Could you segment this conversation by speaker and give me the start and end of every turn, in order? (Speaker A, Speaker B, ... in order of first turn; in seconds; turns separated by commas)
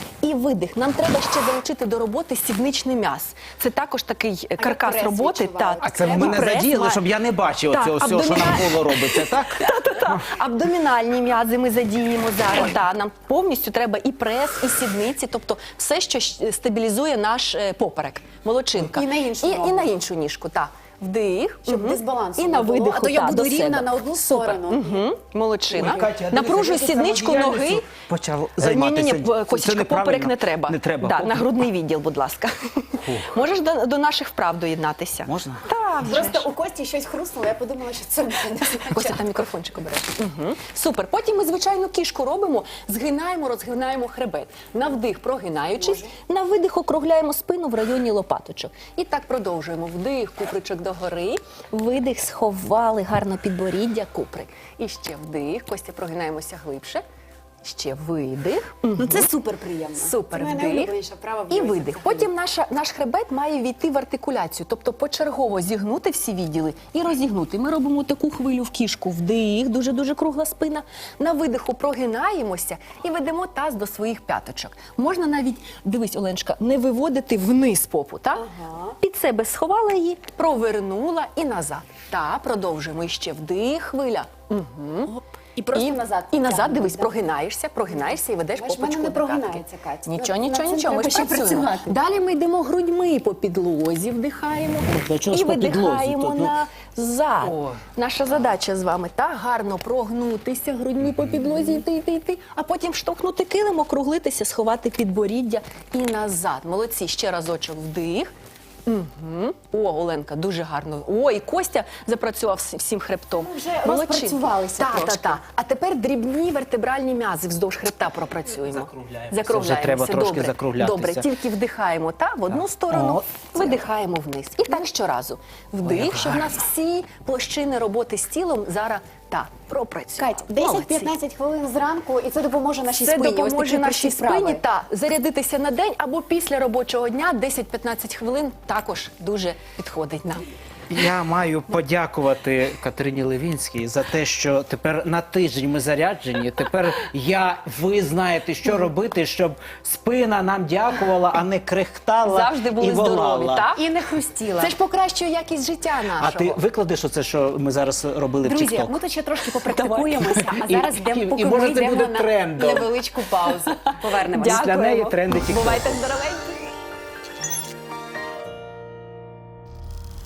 Speaker A: 0.2-7.0, Speaker B: 4.6-6.5, Speaker C: 5.8-10.2, Speaker A: 7.7-27.9, Speaker B: 18.8-19.9, Speaker B: 21.7-25.1, Speaker C: 25.7-31.6, Speaker A: 28.6-36.5, Speaker C: 33.0-33.4, Speaker C: 35.2-35.7, Speaker B: 36.0-39.2, Speaker A: 38.9-57.0, Speaker B: 45.8-46.1, Speaker A: 57.6-59.3, Speaker B: 59.0-62.3, Speaker A: 60.0-60.9, Speaker A: 61.5-85.2, Speaker B: 78.5-78.9, Speaker B: 85.5-87.2, Speaker A: 85.7-108.3, Speaker B: 87.9-92.0, Speaker C: 94.9-96.5, Speaker A: 108.8-131.1, Speaker B: 113.4-115.4, Speaker C: 118.7-121.2, Speaker C: 122.5-123.8, Speaker C: 125.8-126.5, Speaker B: 130.2-134.6, Speaker A: 132.9-140.4, Speaker C: 140.9-153.7, Speaker A: 152.2-153.8, Speaker B: 153.7-154.8, Speaker A: 154.6-156.6, Speaker C: 156.1-158.9, Speaker B: 158.4-164.7, Speaker A: 159.6-160.4, Speaker C: 160.2-162.9, Speaker A: 163.7-166.7, Speaker C: 164.4-166.0